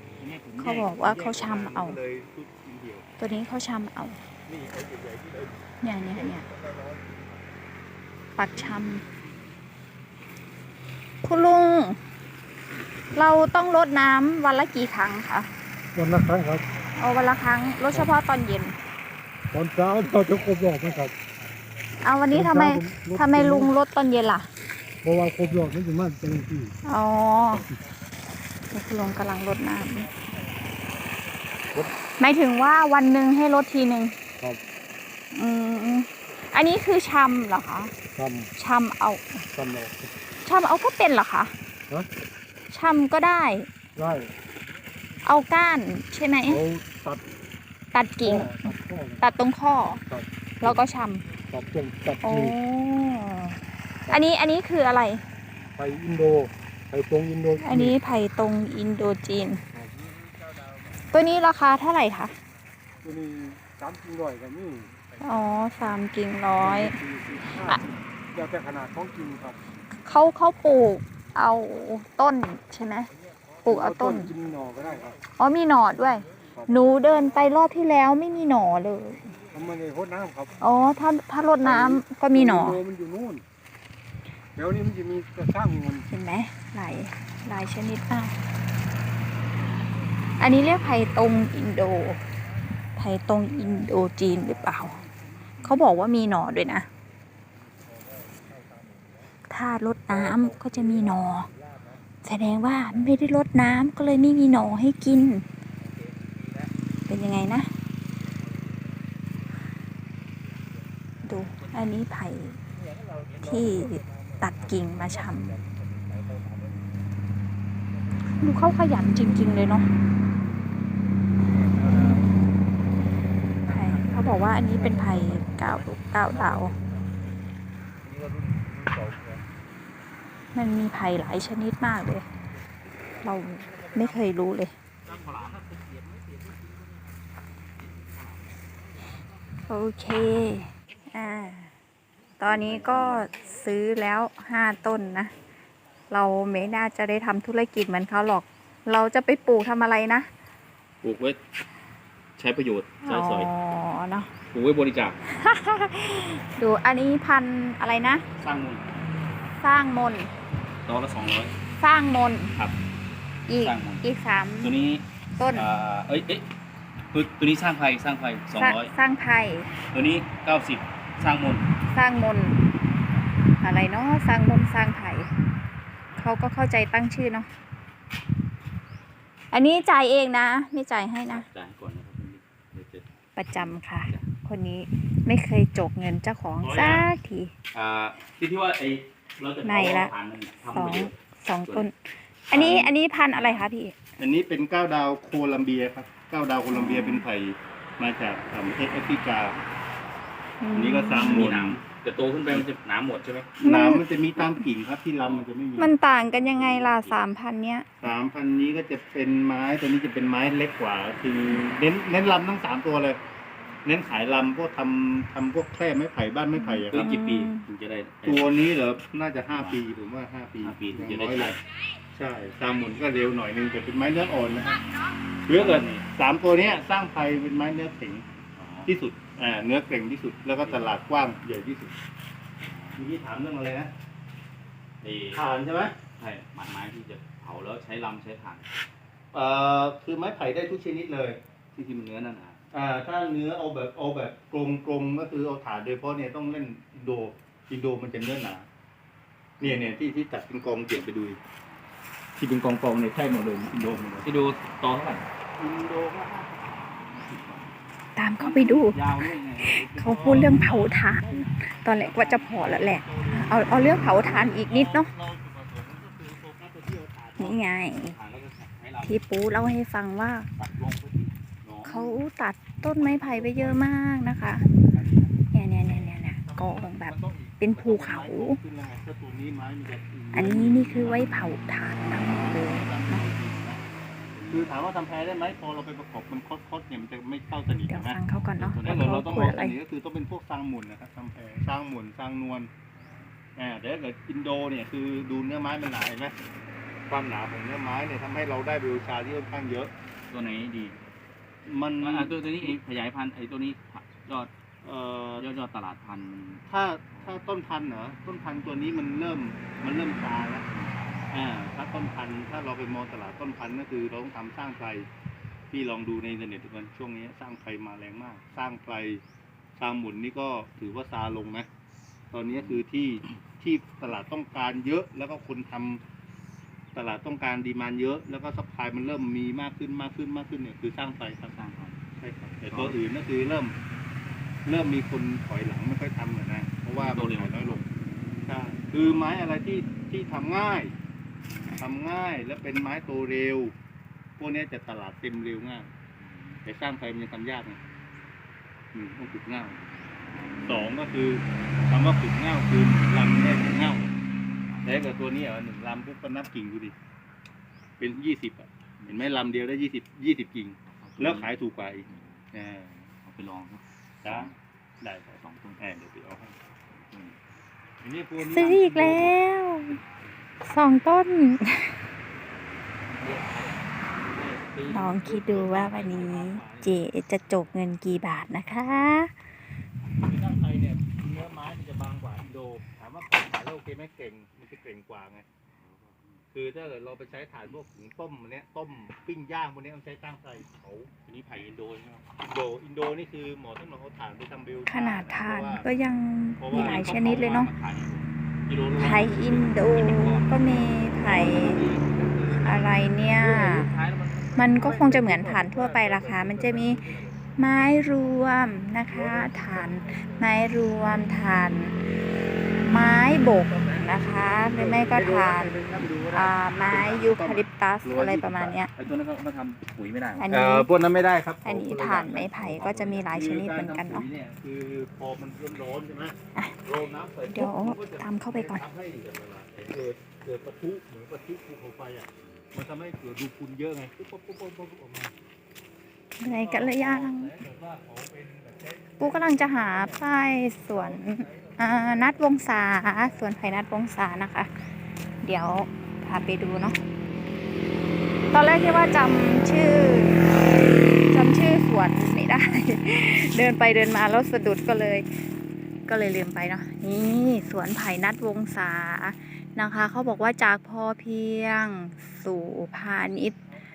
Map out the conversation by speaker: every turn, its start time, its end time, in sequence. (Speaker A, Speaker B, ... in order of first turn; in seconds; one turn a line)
Speaker A: 0.2-3.1
Speaker B: 0.6-2.0
Speaker B: 3.2-4.2
Speaker A: 4.5-7.6
Speaker B: 5.8-6.5
Speaker B: 8.4-9.0
Speaker A: 8.5-9.2
Speaker B: 11.2-12.0
Speaker B: 13.1-15.5
Speaker C: 15.9-16.7
Speaker B: 17.0-18.8
Speaker C: 19.5-21.1
Speaker B: 22.0-24.5
Speaker C: 22.3-23.7
Speaker C: 25.0-26.8
Speaker B: 26.9-27.7
Speaker B: 28.7-30.1
Speaker A: 30.0-31.6
Speaker B: 32.2-34.2
Speaker B: 35.3-37.9
Speaker C: 38.1-38.5
Speaker B: 38.6-39.4
Speaker C: 39.5-40.1
Speaker B: 40.4-41.5
Speaker B: 42.7-43.7
Speaker C: 44.0-44.3
Speaker B: 45.2-46.6
Speaker C: 46.5-47.2
Speaker B: 47.9-48.7
Speaker C: 48.2-49.2
Speaker B: 49.2-50.0
Speaker C: 50.1-50.8
Speaker B: 50.6-51.2
Speaker C: 51.5-52.6
Speaker B: 52.2-53.6
Speaker B: 54.1-55.2
Speaker C: 55.8-58.0
Speaker B: 57.6-59.6
Speaker A: 60.1-61.6
Speaker B: 61.1-62.3
Speaker C: 63.0-64.9
Speaker A: 64.9-66.0
Speaker B: 65.2-67.0
Speaker C: 66.6-69.6
Speaker B: 70.0-73.1
Speaker A: 73.2-73.7
Speaker B: 73.7-74.3
Speaker C: 73.7-75.2
Speaker B: 75.4-79.4
Speaker A: 76.4-77.2
Speaker C: 76.5-76.9
Speaker C: 79.5-80.6
Speaker B: 80.6-82.8
Speaker C: 81.6-83.4
Speaker C: 84.6-86.1
Speaker B: 86.1-88.3
Speaker A: 89.6-91.6
Speaker B: 90.4-92.2
Speaker B: 93.0-95.0
Speaker A: 93.6-95.8
Speaker B: 95.6-96.9
Speaker A: 97.6-99.3
Speaker B: 99.5-101.5
Speaker A: 100.1-102.1
Speaker B: 102.2-105.5
Speaker A: 102.8-103.4
Speaker A: 105.8-106.7
Speaker B: 107.1-107.7
Speaker A: 108.1-109.6
Speaker A: 110.2-110.9
Speaker B: 111.2-112.6
Speaker A: 112.7-117.0
Speaker B: 113.4-115.5
Speaker A: 117.9-118.7
Speaker B: 118.3-119.9
Speaker A: 121.4-122.5
Speaker A: 123.6-127.3
Speaker B: 123.7-126.8
Speaker A: 128.0-129.4
Speaker B: 130.6-132.3
Speaker B: 133.2-134.7
Speaker A: 133.6-134.3
Speaker A: 135.1-137.3
Speaker D: 135.1-135.6
Speaker A: 138.0-138.4
Speaker B: 139.7-141.7
Speaker B: 142.4-145.3
Speaker D: 142.4-143.3
Speaker B: 146.1-150.3
Speaker D: 151.0-151.4
Speaker D: 152.4-153.5
Speaker B: 153.0-154.3
Speaker D: 154.5-155.2
Speaker B: 155.2-158.2
Speaker D: 158.4-159.3
Speaker B: 159.6-160.3
Speaker D: 160.8-161.6
Speaker B: 161.8-162.6
Speaker B: 163.5-164.8
Speaker D: 163.6-164.0
Speaker D: 164.6-166.5
Speaker B: 165.4-165.7
Speaker D: 167.1-168.9
Speaker B: 168.6-169.7
Speaker D: 169.9-171.7
Speaker B: 171.9-172.6
Speaker B: 173.6-175.3
Speaker B: 176.2-177.5
Speaker B: 179.5-181.5
Speaker D: 181.3-183.1
Speaker B: 183.4-187.5
Speaker D: 186.6-187.1
Speaker D: 187.7-191.1
Speaker B: 189.6-190.1
Speaker B: 190.7-193.9
Speaker D: 192.5-193.7
Speaker A: 194.2-199.6
Speaker B: 196.7-197.3
Speaker B: 200.6-201.5
Speaker A: 200.7-201.8
Speaker D: 201.1-203.6
Speaker A: 203.6-206.0
Speaker B: 203.6-204.0
Speaker B: 205.8-207.9
Speaker D: 206.4-207.2
Speaker A: 208.0-213.2
Speaker A: 213.8-217.1
Speaker B: 216.5-217.7
Speaker D: 216.9-218.5
Speaker A: 218.2-221.6
Speaker D: 219.5-219.8
Speaker D: 220.6-221.6
Speaker A: 222.1-224.8
Speaker A: 225.5-228.3
Speaker D: 225.5-226.1
Speaker D: 228.6-228.9
Speaker A: 228.9-232.0
Speaker D: 230.6-231.1
Speaker D: 232.6-233.1
Speaker A: 233.0-233.9
Speaker D: 235.0-235.4
Speaker A: 235.3-236.0
Speaker D: 236.2-238.7
Speaker A: 239.3-241.4
Speaker D: 241.8-242.6
Speaker A: 242.7-248.7
Speaker A: 249.6-251.4
Speaker D: 249.6-249.9
Speaker A: 252.4-254.3
Speaker D: 254.2-255.3
Speaker A: 255.6-257.5
Speaker D: 257.3-257.6
Speaker B: 258.2-259.1
Speaker D: 258.4-261.0
Speaker B: 259.6-265.1
Speaker A: 259.9-267.6
Speaker B: 267.4-268.2
Speaker D: 267.8-269.8
Speaker B: 269.1-270.5
Speaker D: 270.6-272.2
Speaker B: 271.9-274.7
Speaker A: 273.0-273.9
Speaker D: 274.9-275.3
Speaker B: 275.5-278.6
Speaker A: 275.8-281.4
Speaker B: 280.3-283.2
Speaker D: 280.4-281.3
Speaker A: 282.2-283.8
Speaker D: 284.3-284.8
Speaker A: 284.5-288.2
Speaker B: 287.9-289.8
Speaker D: 288.6-289.2
Speaker A: 288.8-292.7
Speaker A: 293.6-296.4
Speaker A: 297.1-299.9
Speaker D: 300.3-301.0
Speaker A: 301.6-302.8
Speaker D: 302.0-304.5
Speaker A: 304.8-305.5
Speaker D: 305.4-307.4
Speaker A: 306.7-310.6
Speaker D: 310.7-311.2
Speaker A: 311.3-315.1
Speaker A: 315.7-319.2
Speaker A: 319.8-321.7
Speaker A: 322.3-326.0
Speaker A: 326.9-331.5
Speaker D: 331.5-332.0
Speaker A: 332.2-333.8
Speaker D: 332.7-333.0
Speaker A: 334.6-337.9
Speaker D: 337.0-338.0
Speaker A: 338.5-340.9
Speaker A: 341.8-343.7
Speaker A: 344.4-345.9
Speaker D: 346.2-346.6
Speaker A: 346.6-347.8
Speaker A: 348.9-349.8
Speaker A: 350.7-354.1
Speaker A: 354.8-356.9
Speaker A: 358.0-363.0
Speaker D: 360.9-361.5
Speaker D: 362.1-362.4
Speaker D: 363.2-364.6
Speaker A: 364.2-366.6
Speaker D: 365.4-365.8
Speaker D: 367.1-367.4
Speaker A: 368.0-369.4
Speaker B: 368.4-370.0
Speaker B: 370.7-372.0
Speaker D: 373.1-376.8
Speaker B: 374.9-379.3
Speaker A: 375.4-376.9
Speaker A: 380.2-385.5
Speaker D: 385.8-386.4
Speaker A: 386.5-391.1
Speaker D: 391.3-392.3
Speaker A: 392.4-395.9
Speaker B: 394.9-397.7
Speaker A: 396.6-397.7
Speaker D: 396.7-400.5
Speaker A: 398.7-399.6
Speaker B: 399.0-401.8
Speaker D: 401.2-404.4
Speaker A: 401.2-411.0
Speaker B: 402.6-403.9
Speaker B: 404.6-407.0
Speaker B: 407.6-411.9
Speaker B: 412.8-418.9
Speaker A: 413.7-418.8
Speaker D: 418.9-420.5
Speaker B: 420.4-420.9
Speaker A: 420.5-435.3
Speaker B: 421.6-424.3
Speaker D: 422.6-423.2
Speaker B: 427.5-428.8
Speaker B: 436.4-437.6
Speaker A: 436.4-440.3
Speaker B: 439.2-444.7
Speaker A: 440.9-443.9
Speaker B: 445.4-447.0
Speaker B: 448.5-450.6
Speaker B: 451.3-455.3
Speaker B: 456.1-463.6